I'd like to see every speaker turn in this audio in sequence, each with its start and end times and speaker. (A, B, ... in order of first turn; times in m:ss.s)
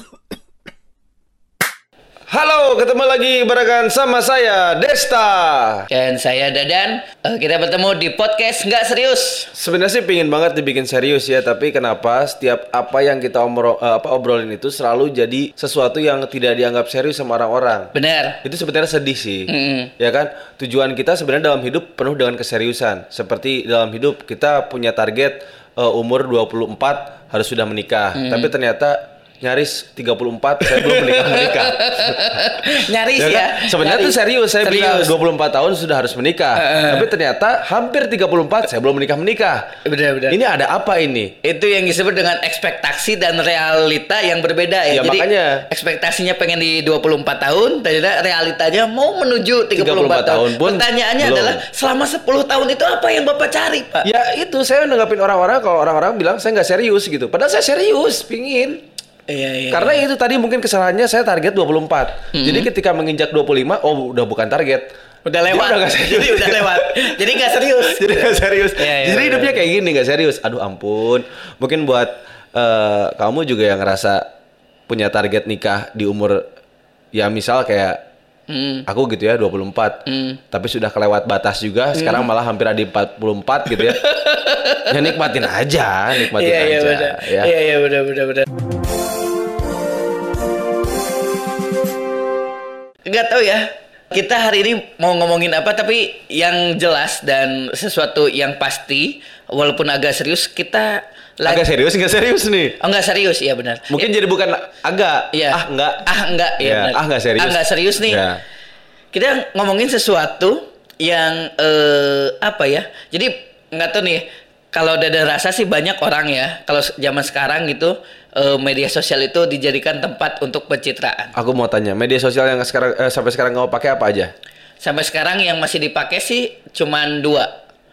0:02.3-0:05.9 A
0:05.9-0:09.5 B
0:09.5-0:17.9 A
0:17.9-0:18.4 B
0:18.4-0:39.7 A
0:19.5-0:19.9 B
0:28.1-0:28.5 B
0:30.7-0:35.1 B
0:36.6-0:37.1 B
0:39.8-0:40.4 B
0:40.3-0:41.4 A
0:41.4-0:54.1 B
0:44.9-0:45.6 A
0:49.7-0:51.6 A
0:54.0-0:58.8 A
0:59.3-1:00.0 B
0:59.7-1:04.9 A
1:02.3-1:02.7 B
1:05.2-1:09.6 B
1:05.5-1:07.1 A
1:07.7-1:14.2 A
1:14.9-1:16.5 A
1:17.1-1:18.0 A
1:18.5-1:18.9 B
1:18.8-1:24.0 A
1:20.0-1:20.4 B
1:21.9-1:22.3 B
1:23.7-1:25.1 B
1:24.9-1:27.5 A
1:26.1-1:28.5 B
1:33.0-1:41.6 B
1:41.4-1:42.8 A
1:42.8-1:44.1 B
1:43.9-1:48.4 A
1:45.3-1:48.2 B
1:49.1-2:01.3 B
2:01.3-2:04.3 A
2:04.8-2:07.5 B